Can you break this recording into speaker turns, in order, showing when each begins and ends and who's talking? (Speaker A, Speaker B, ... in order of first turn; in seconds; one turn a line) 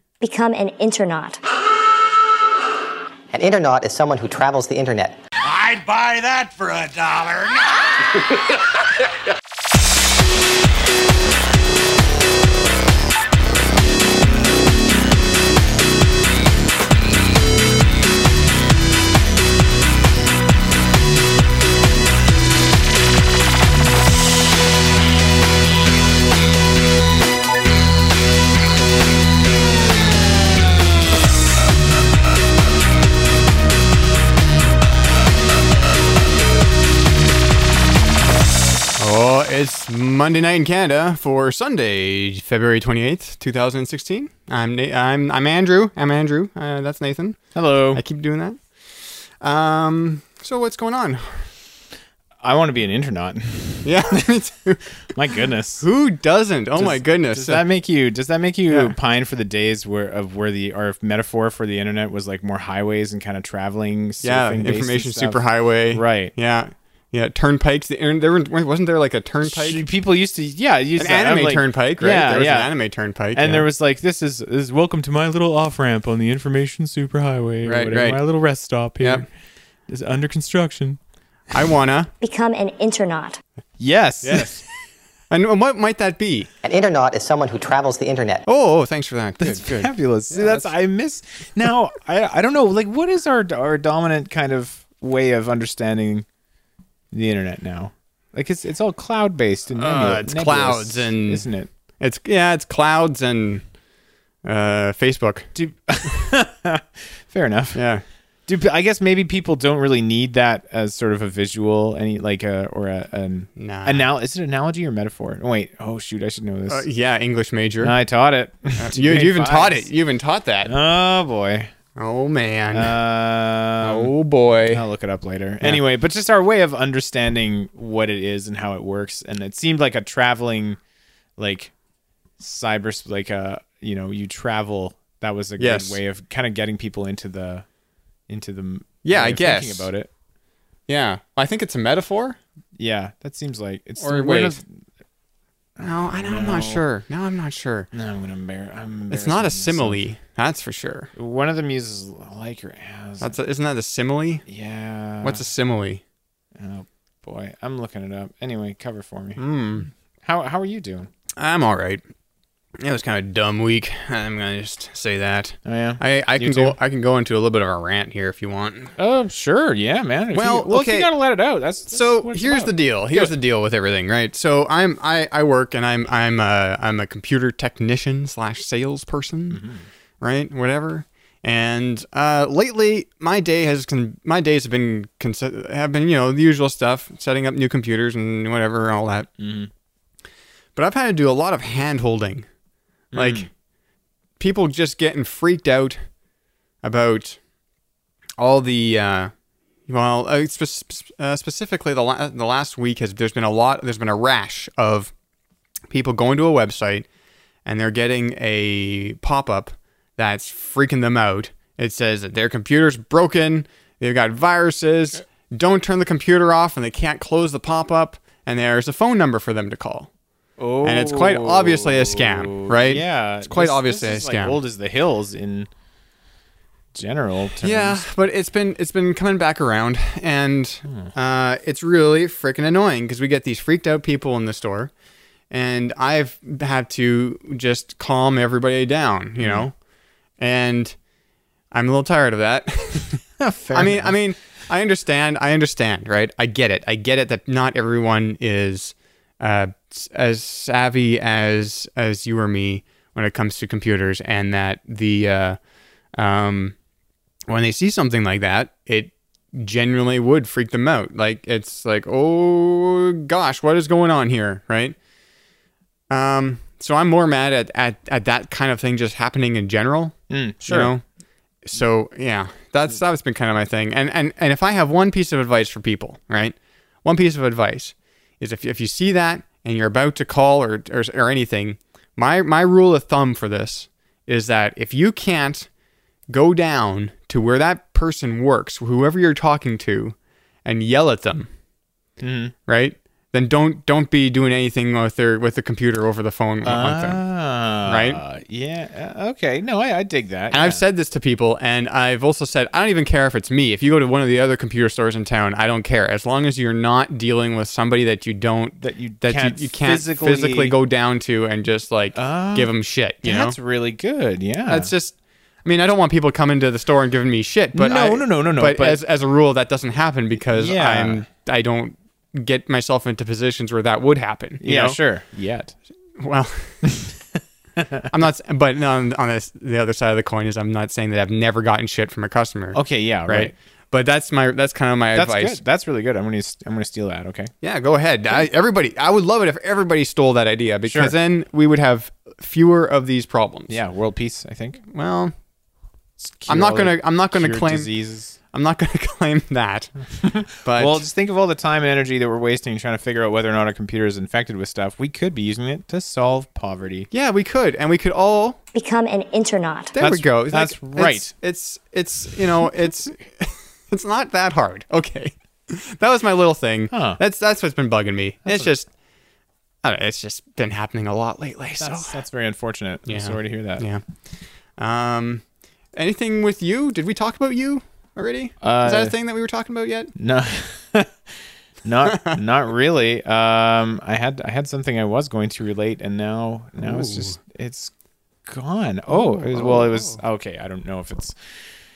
Speaker A: 0.2-1.4
Speaker B: 3.3-5.2
Speaker C: 5.4-7.7
Speaker D: 39.0-47.4
Speaker E: 47.5-48.0
Speaker D: 47.9-51.5
Speaker E: 52.4-54.2
Speaker D: 53.8-54.9
Speaker E: 55.1-55.9
Speaker D: 55.8-57.6
Speaker E: 56.8-66.3
Speaker D: 58.7-59.0
Speaker D: 64.2-69.8
Speaker E: 69.5-72.7
Speaker D: 71.0-73.7
Speaker E: 73.3-79.3
Speaker D: 77.6-78.2
Speaker D: 79.0-79.2
Speaker E: 79.9-81.0
Speaker D: 81.5-82.1
Speaker A: 82.2-83.4
Speaker E: 83.8-84.6
Speaker D: 84.2-84.6
Speaker D: 85.3-86.5
Speaker B: 86.6-88.5
Speaker D: 88.5-90.7
Speaker E: 89.4-96.3
Speaker E: 97.1-101.7
Speaker D: 99.8-101.5
Speaker D: 102.0-103.7
Speaker D: 104.4-105.5
Speaker E: 105.5-107.8
Speaker D: 107.7-108.0
Speaker E: 108.5-116.9
Speaker D: 113.6-114.1
Speaker D: 116.7-118.0
Speaker E: 117.8-119.9
Speaker D: 118.8-120.7
Speaker E: 120.7-121.7
Speaker D: 122.0-122.9
Speaker E: 122.7-124.1
Speaker D: 123.8-124.8
Speaker E: 124.7-130.8
Speaker E: 131.4-131.7
Speaker E: 132.4-137.7
Speaker D: 135.6-136.0
Speaker E: 138.3-140.1
Speaker D: 139.0-139.9
Speaker D: 140.9-142.4
Speaker E: 142.8-144.7
Speaker D: 144.0-144.6
Speaker E: 145.8-146.8
Speaker D: 145.8-147.9
Speaker E: 147.9-150.0
Speaker D: 149.1-151.1
Speaker E: 151.2-153.3
Speaker D: 153.2-154.4
Speaker E: 154.5-155.4
Speaker D: 155.2-156.0
Speaker E: 156.6-159.4
Speaker D: 159.4-159.9
Speaker E: 160.2-161.1
Speaker D: 161.4-162.0
Speaker D: 162.8-168.9
Speaker E: 165.7-166.8
Speaker E: 169.0-173.3
Speaker D: 170.3-171.1
Speaker D: 171.9-179.6
Speaker E: 179.5-179.9
Speaker D: 180.2-189.3
Speaker E: 189.4-189.7
Speaker D: 190.8-192.5
Speaker E: 193.1-193.5
Speaker D: 193.1-193.5
Speaker D: 194.4-196.1
Speaker D: 196.8-197.4
Speaker D: 198.4-199.3
Speaker D: 199.9-205.1
Speaker D: 205.9-207.1
Speaker D: 207.7-220.1
Speaker E: 220.6-225.7
Speaker D: 220.8-224.6
Speaker E: 226.9-228.1
Speaker D: 227.6-234.9
Speaker D: 235.5-239.8
Speaker E: 239.4-239.7
Speaker D: 240.4-240.9
Speaker D: 241.7-255.6
Speaker E: 243.4-244.2
Speaker D: 256.1-256.8
Speaker D: 257.5-265.0
Speaker D: 266.1-271.0
Speaker E: 270.3-270.9
Speaker D: 271.6-285.7
Speaker D: 286.3-291.5
Speaker E: 292.2-292.5
Speaker D: 292.7-297.2
Speaker E: 296.6-300.8
Speaker D: 297.8-298.2
Speaker D: 300.5-313.6
Speaker E: 308.8-310.8
Speaker E: 312.1-314.9
Speaker D: 314.7-325.0
Speaker E: 317.7-319.0
Speaker E: 320.5-321.3
Speaker E: 324.6-325.8
Speaker D: 326.2-326.8
Speaker E: 327.8-328.0
Speaker D: 328.1-335.6
Speaker E: 332.7-333.5
Speaker E: 335.1-337.5
Speaker D: 337.6-343.8
Speaker E: 340.9-341.2
Speaker E: 343.7-344.8
Speaker D: 344.9-345.4
Speaker E: 346.2-348.4
Speaker D: 346.5-347.9
Speaker D: 348.5-349.9
Speaker E: 350.2-357.1
Speaker D: 350.5-351.1
Speaker D: 357.1-358.6
Speaker A: 358.8-359.9
Speaker D: 359.9-368.9
Speaker E: 360.0-361.3
Speaker E: 366.9-367.2
Speaker D: 369.8-372.2
Speaker E: 371.8-373.9
Speaker D: 373.1-374.0
Speaker D: 374.8-375.4
Speaker D: 375.9-380.1
Speaker E: 378.6-379.2
Speaker E: 380.2-381.1
Speaker E: 381.8-387.9
Speaker D: 382.1-382.4
Speaker D: 386.8-387.4
Speaker E: 388.5-391.4
Speaker D: 389.1-390.2